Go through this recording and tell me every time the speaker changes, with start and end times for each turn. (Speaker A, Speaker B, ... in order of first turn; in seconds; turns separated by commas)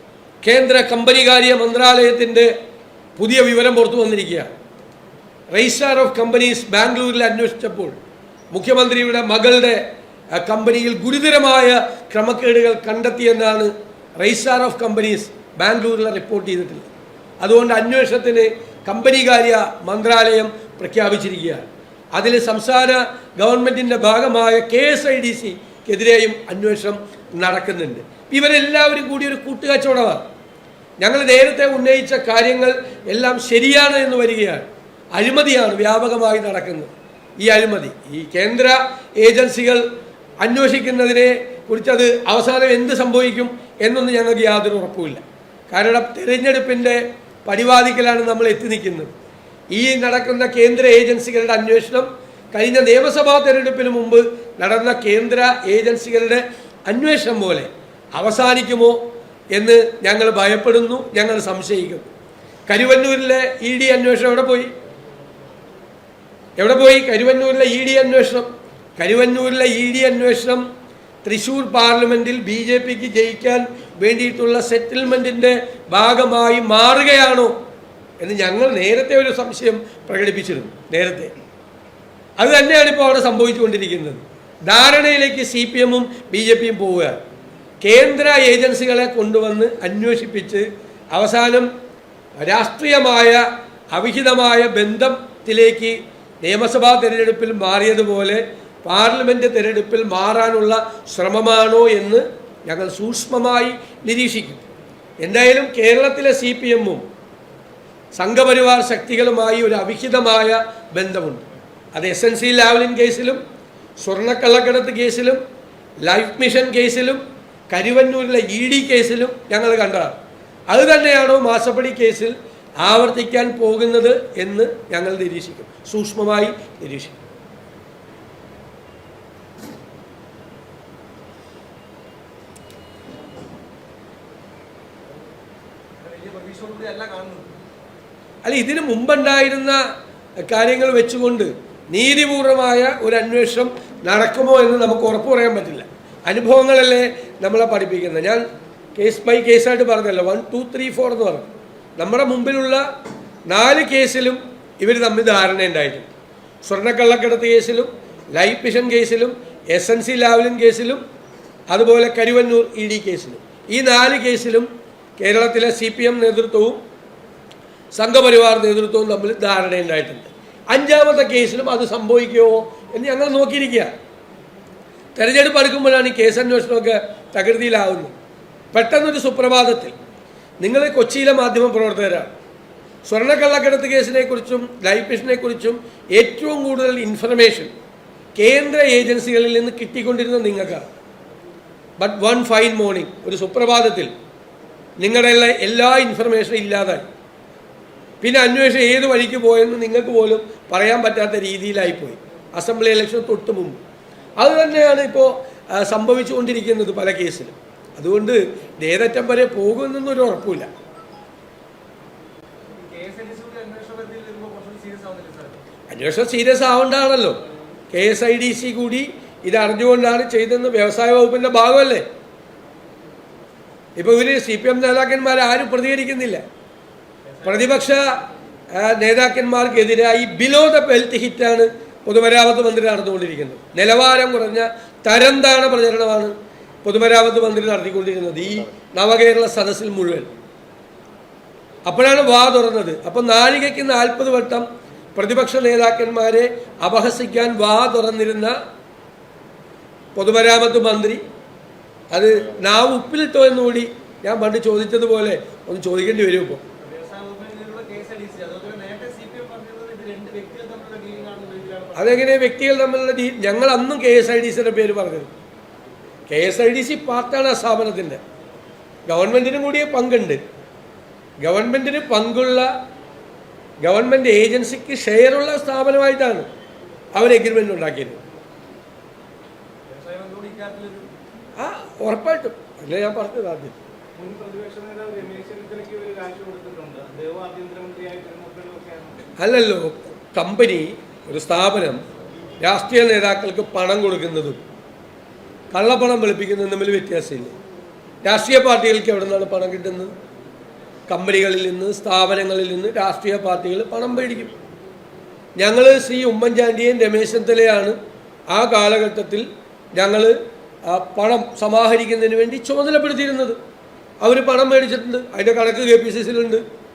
Speaker A: 0.4-2.5, Speaker A: 3.2-4.5, Speaker A: 5.5-7.9, Speaker A: 8.5-9.8, Speaker A: 10.3-16.9, Speaker A: 17.4-30.2, Speaker A: 31.0-39.8, Speaker A: 40.4-49.1, Speaker A: 49.7-59.0, Speaker A: 59.5-62.1, Speaker A: 62.7-64.7, Speaker A: 66.6-70.6, Speaker A: 71.2-77.5, Speaker A: 78.2-81.3, Speaker A: 82.4-87.2, Speaker A: 87.8-91.7, Speaker A: 92.4-104.6, Speaker A: 105.2-107.0, Speaker A: 108.1-111.4, Speaker A: 111.9-113.4, Speaker A: 114.0-115.4, Speaker A: 116.0-120.2, Speaker A: 120.7-127.2, Speaker B: 136.0-137.5, Speaker A: 138.4-139.8, Speaker A: 140.5-148.4, Speaker A: 148.9-152.8, Speaker A: 153.5-156.1, Speaker A: 156.6-161.0, Speaker A: 161.7-164.7, Speaker A: 165.2-166.8, Speaker A: 167.9-173.9, Speaker A: 175.2-178.1, Speaker A: 178.7-179.9, Speaker A: 180.6-182.3, Speaker A: 183.0-187.7, Speaker A: 188.3-190.9, Speaker A: 192.0-194.1, Speaker A: 195.0-197.0, Speaker A: 198.2-203.8, Speaker A: 204.4-210.7, Speaker B: 212.7-215.6, Speaker A: 215.9-217.4, Speaker A: 217.9-222.0, Speaker A: 224.0-226.4, Speaker B: 227.3-227.9, Speaker A: 227.4-228.2, Speaker A: 228.7-240.3, Speaker A: 241.9-244.6, Speaker A: 245.2-248.6, Speaker A: 250.2-251.2, Speaker A: 252.1-256.6, Speaker B: 256.8-262.3, Speaker A: 261.9-265.3, Speaker A: 266.3-268.2, Speaker A: 269.1-270.4, Speaker A: 271.4-272.7, Speaker A: 273.8-276.5, Speaker A: 277.1-278.2, Speaker B: 279.9-281.1, Speaker A: 281.6-283.7, Speaker B: 284.2-289.3, Speaker A: 289.4-292.0, Speaker A: 292.6-294.6, Speaker A: 295.7-297.5, Speaker A: 298.2-300.1, Speaker A: 301.1-304.5, Speaker A: 305.6-308.0, Speaker A: 308.5-310.4, Speaker A: 310.9-313.6, Speaker A: 314.2-316.6